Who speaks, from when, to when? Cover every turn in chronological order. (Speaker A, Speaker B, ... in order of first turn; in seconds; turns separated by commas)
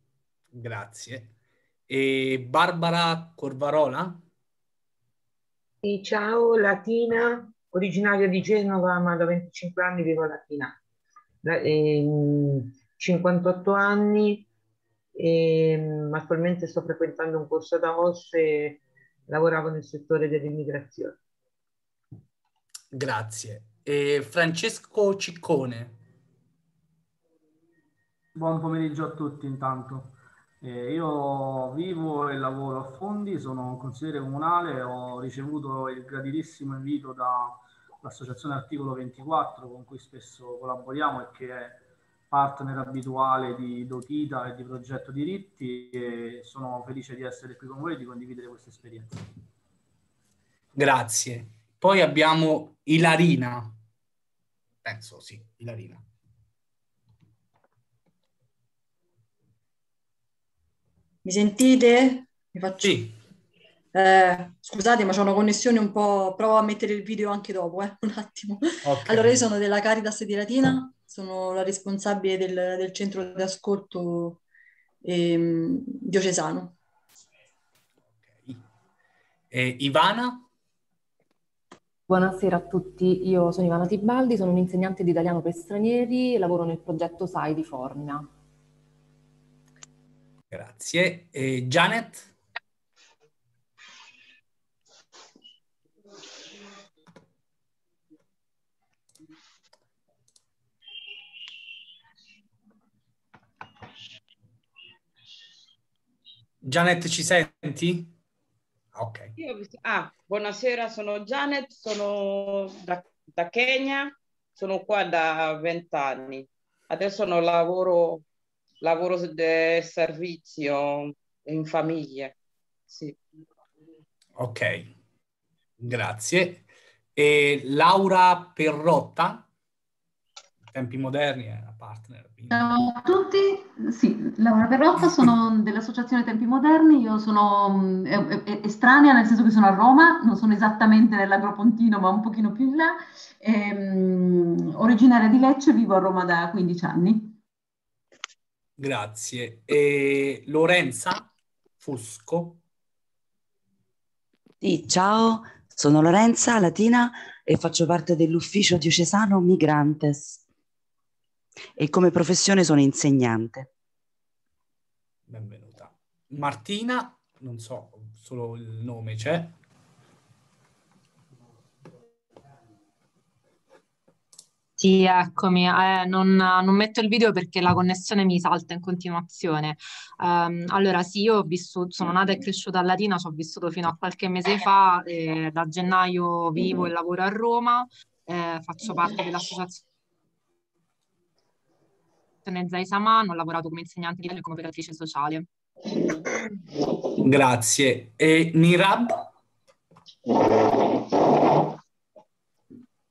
Speaker A: 0.5-1.3, Speaker A: 1.9-4.2, Speaker B: 5.8-10.8, Speaker B: 11.4-14.5, Speaker B: 15.2-21.2, Speaker A: 22.9-26.0, Speaker C: 28.3-49.2, Speaker A: 50.8-53.8, Speaker A: 54.8-56.0, Speaker D: 61.2-63.0, Speaker A: 62.8-63.1, Speaker D: 63.9-74.4, Speaker A: 68.8-69.4, Speaker D: 75.0-76.8, Speaker A: 78.2-78.6, Speaker A: 79.5-80.5, Speaker E: 82.1-88.3, Speaker A: 90.5-92.3, Speaker A: 106.6-108.1, Speaker A: 108.9-109.3, Speaker B: 109.4-109.9, Speaker F: 110.0-118.2, Speaker F: 118.8-120.8, Speaker B: 121.5-122.3, Speaker A: 124.4-124.9, Speaker A: 125.8-129.5, Speaker A: 130.7-132.7, Speaker G: 132.5-147.4, Speaker A: 148.8-152.6, Speaker H: 154.6-160.4, Speaker H: 161.8-163.7, Speaker A: 165.3-169.5, Speaker I: 174.8-189.8, Speaker I: 192.4-195.5, Speaker A: 197.2-199.2